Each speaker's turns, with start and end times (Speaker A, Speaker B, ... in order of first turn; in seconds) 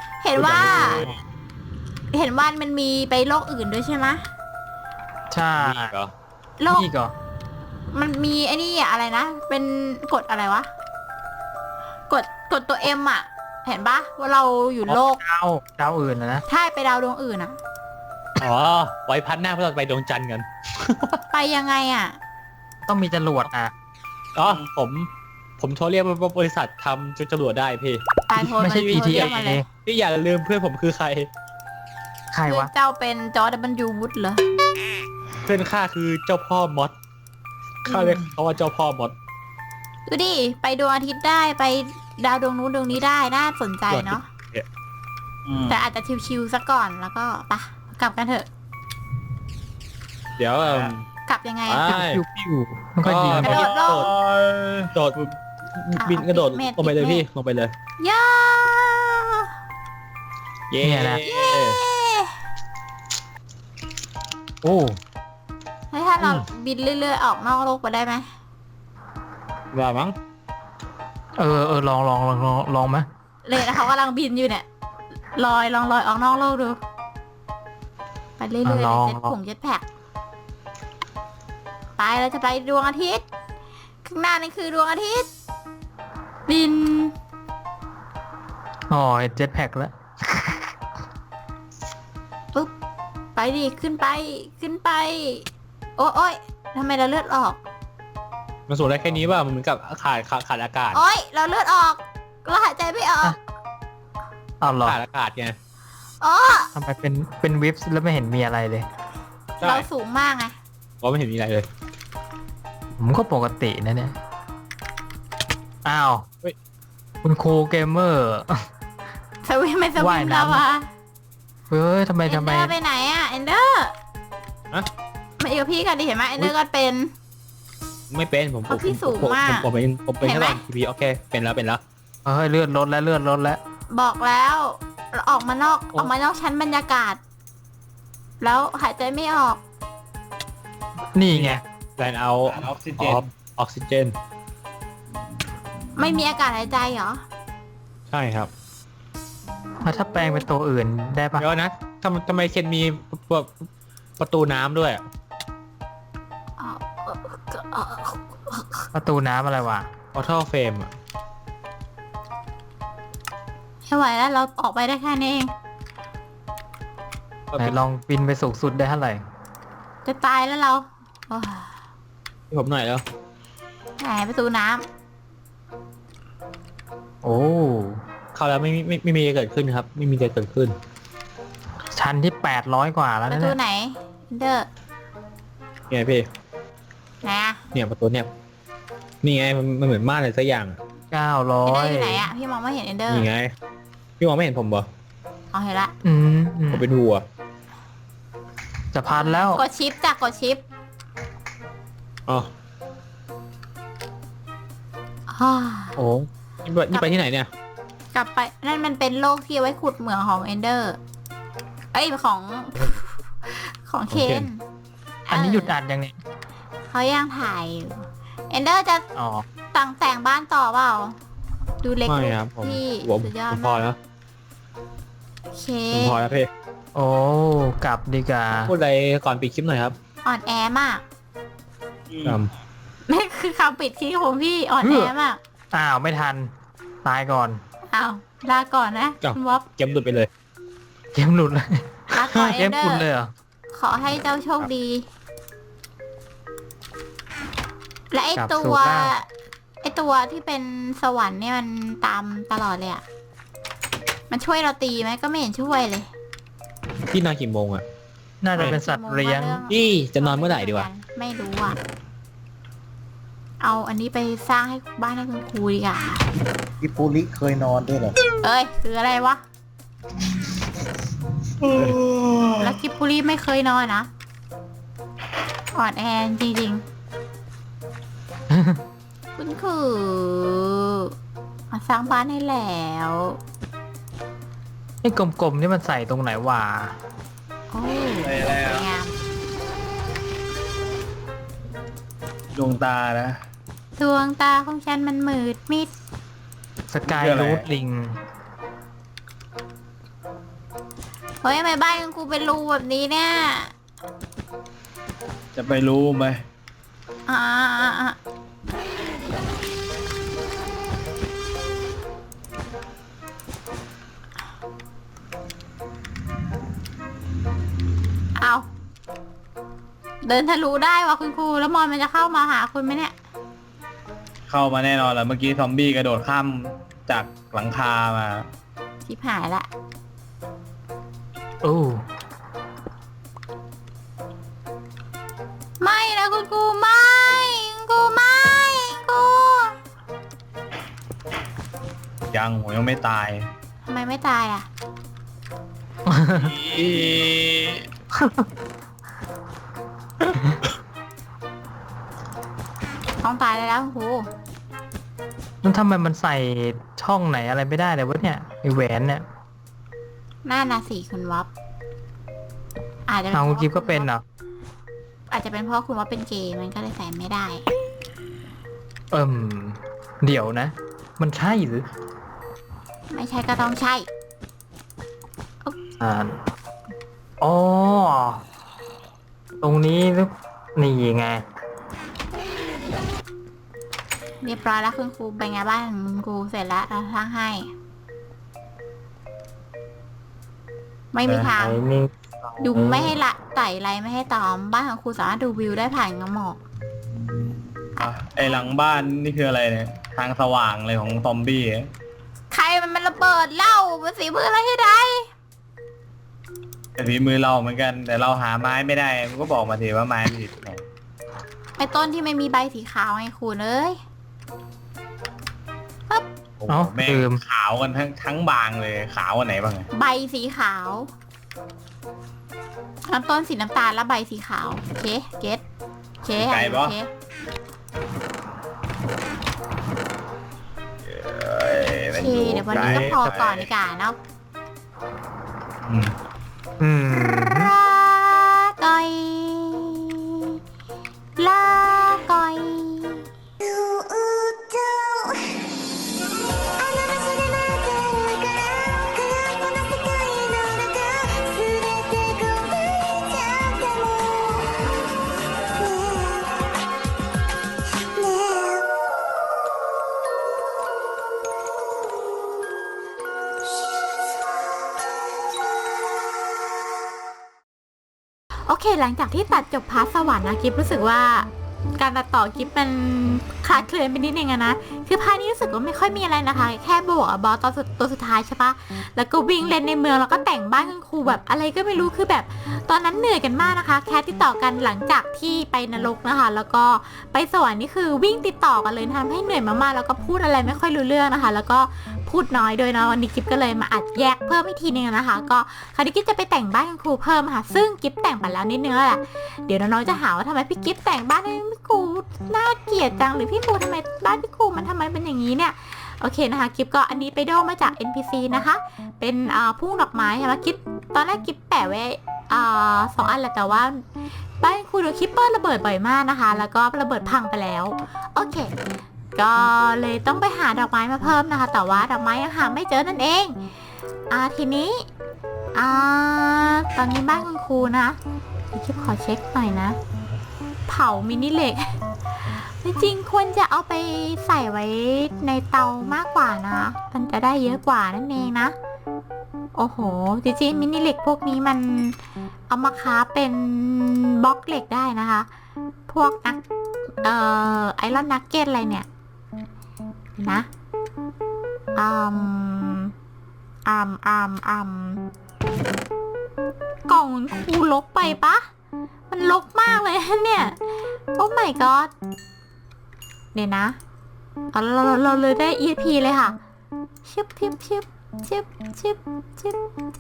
Speaker A: 0.2-1.1, 2.1-4.2, 6.6-6.9, 7.9-10.7, 12.1-15.2, 16.5-17.6, 21.3-22.2, 28.3-29.6, 32.5-34.4, 40.1-44.3, 45.7-48.5, 51.3-51.9, 53.4-54.1, 56.0-57.2, 58.0-59.5, 61.2-62.3, 65.9-68.2, 73.5-74.7, 75.4-76.8, 78.4-79.8, 82.0-83.2, 84.0-85.3, 86.5-87.2, 93.4-95.5, 96.0-97.6, 100.9-103.4, 106.2-106.7, 109.6-110.5, 119.5-120.9, 122.3-123.9, 125.4-127.1, 128.7-129.7, 130.2-130.6, 133.9-137.2, 138.4-139.6, 146.0-147.2, 156.6-158.9, 163.9-165.5, 170.1-171.7, 174.0-174.8, 183.3-184.7, 187.2-187.6, 191.7-193.3, 195.5-195.9, 199.1-200.6, 205.3-206.0, 208.1-211.0, 211.9-214.6, 215.3-215.7, 216.9-219.1, 219.7-221.2, 221.8-223.9, 225.5-226.3, 230.2-231.0, 233.1-235.4, 237.9-239.7, 242.1-243.1, 243.7-245.1, 248.1-249.3, 249.8-253.0, 254.3-256.1, 258.6-261.8, 263.6-266.2, 268.4-269.4, 272.6-274.1, 275.7-276.8, 279.4-281.1, 281.7-283.4, 287.7-289.1, 294.0-295.9, 301.4-303.7, 307.3-308.2, 318.4-318.7, 320.2-323.1, 329.1-329.7, 335.8-339.8, 343.9-344.7, 353.2-354.3, 360.4-361.5, 363.1-364.1, 365.3-367.6, 373.1-374.1, 384.4-387.7, 391.1-391.8, 392.6-396.6, 398.0-398.7, 402.5-405.3, 411.8-414.0, 419.9-421.1, 423.1-425.6, 426.2-427.1, 432.1-434.2, 437.4-440.5, 441.4-443.2, 468.7-514.0, 514.6-518.7, 519.4-523.6, 524.3-525.1, 525.8-528.2, 528.7-530.0, 530.9-532.0, 532.5-538.8, 539.8-542.2, 542.7-545.5, 546.1-546.6, 547.2-549.1, 550.4-550.7, 552.0-553.1, 553.9-555.2, 557.1-558.7, 559.3-560.8, 561.4-562.1, 563.5-564.0, 564.7-566.6, 567.3-569.8
Speaker B: 0.4-1.2, 5.6-6.1, 18.4-21.2, 24.4-25.1, 25.6-31.3, 35.5-37.0, 37.8-39.1, 43.9-44.7, 50.4-51.1, 51.7-52.2, 53.0-54.1, 55.8-57.7, 60.7-61.8, 69.7-70.2, 98.7-101.0, 104.8-105.6, 109.6-109.9, 111.0-111.7, 128.1-131.8, 141.3-144.1, 148.1-148.5, 151.4-153.5, 154.2-155.0, 160.1-160.9, 167.5-167.8, 172.5-173.0, 178.3-180.8, 185.9-186.3, 187.7-188.3, 189.2-190.8, 193.1-193.5, 194.2-194.9, 196.7-197.2, 206.6-207.5, 214.1-214.5, 222.1-224.0, 225.9-226.5, 228.7-230.0, 232.2-232.5, 239.2-240.3, 257.1-257.8, 259.7-260.9, 432.7-433.2
Speaker C: 0.6-1.2, 5.3-5.9, 6.7-7.1, 15.2-16.4, 22.9-23.7, 28.4-29.7, 32.3-32.7, 51.9-53.6, 60.8-61.2, 64.6-65.0, 71.4-73.1, 78.7-79.3, 88.9-90.7, 99.0-99.3, 104.6-105.0, 106.8-108.9, 113.0-114.1, 115.8-116.3, 117.2-118.7, 120.0-120.6, 121.7-122.8, 132.2-133.6, 141.2-141.6, 149.8-151.5, 158.9-159.9, 167.6-169.2, 177.2-178.0, 181.9-183.6, 191.1-192.3, 196.0-196.9, 198.9-199.6, 215.3-216.2, 219.2-219.5, 226.9-228.7, 234.8-235.1, 235.7-236.5, 237.0-237.6, 241.1-243.3, 248.4-249.1, 258.4-259.6, 278.5-278.8, 285.0-287.0, 296.9-298.2, 331.6-332.1, 346.1-346.5, 348.2-348.4, 355.6-359.2, 363.3-364.2, 369.1-371.9, 376.0-376.4, 377.4-378.4, 379.6-381.4, 391.6-393.2, 416.7-417.4, 436.8-437.7
Speaker D: 45.5-45.8, 50.6-50.9, 53.5-55.3, 142.5-143.2, 232.1-232.4, 288.2-288.9, 292.5-293.4, 297.1-297.6, 305.6-306.4, 324.5-328.5, 342.3-343.5, 346.4-347.9, 391.3-391.5, 398.0-401.9, 407.0-410.8, 416.6-419.9, 426.4-426.9, 431.1-433.7, 435.9-436.1
Speaker E: 266.8-268.2, 271.8-272.6